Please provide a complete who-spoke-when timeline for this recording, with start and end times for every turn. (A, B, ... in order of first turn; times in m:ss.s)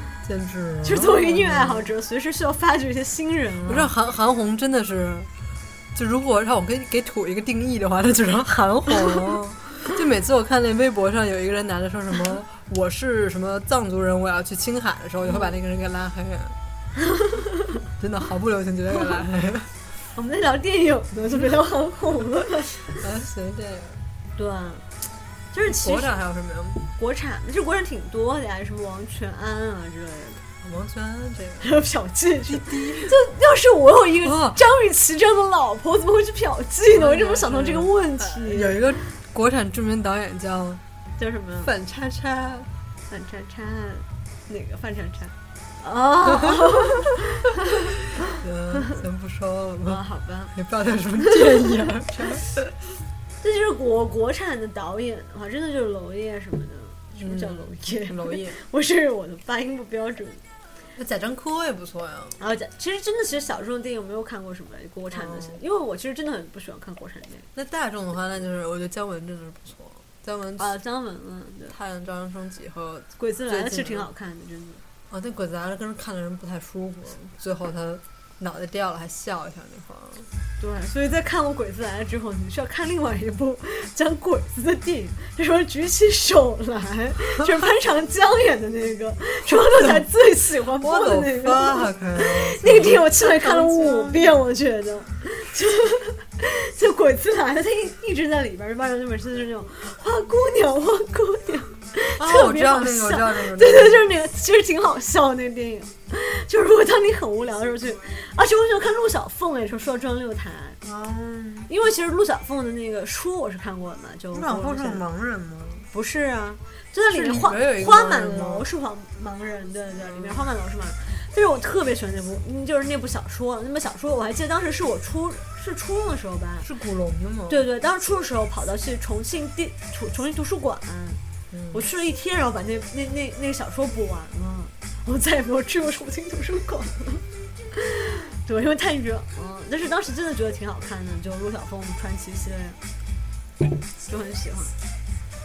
0:00.2-0:01.9 A
0:00.8-0:03.9 B
0:03.6-0:05.3 A
0:05.9-0:16.6 A
0:18.0-0:19.7 A
0:20.2-0:22.8 B
0:22.9-0:24.0 A
0:24.4-0:24.9 B
0:25.5-0:26.1 B
0:25.7-0:26.9 A
0:27.0-0:30.4 B
0:30.6-0:31.7 A
0:31.6-0:38.8 B
0:32.4-0:33.2 A
0:34.2-0:34.6 A
0:36.9-0:40.8 A
0:41.2-0:41.7 B
0:41.6-0:42.7 A
0:43.1-0:47.5 B
0:46.3-0:47.0 A
0:48.3-0:52.7 A
0:49.9-0:50.5 B
0:51.3-0:51.6 B
0:53.4-1:00.4 B
0:57.2-0:58.6 A
1:01.0-1:02.4 A
1:02.4-1:07.5 B
1:05.1-1:05.6 A
1:07.6-1:10.8 A
1:10.6-1:11.8 B
1:11.7-1:14.1 A
1:13.2-1:14.8 B
1:15.1-1:20.3 A
1:20.6-1:50.8 B
1:29.7-1:30.1 A
1:30.8-1:34.4 A
1:42.2-1:44.1 A
1:50.8-1:51.7 A
1:51.7-1:55.0 B
1:54.3-1:55.9 A
1:55.9-2:06.7 B
1:57.1-1:58.7 A
2:00.0-2:00.5 A
2:06.6-2:07.6 A
2:07.5-2:11.2 B
2:11.5-2:11.8 A
2:11.7-2:22.8 B
2:24.1-2:24.7 B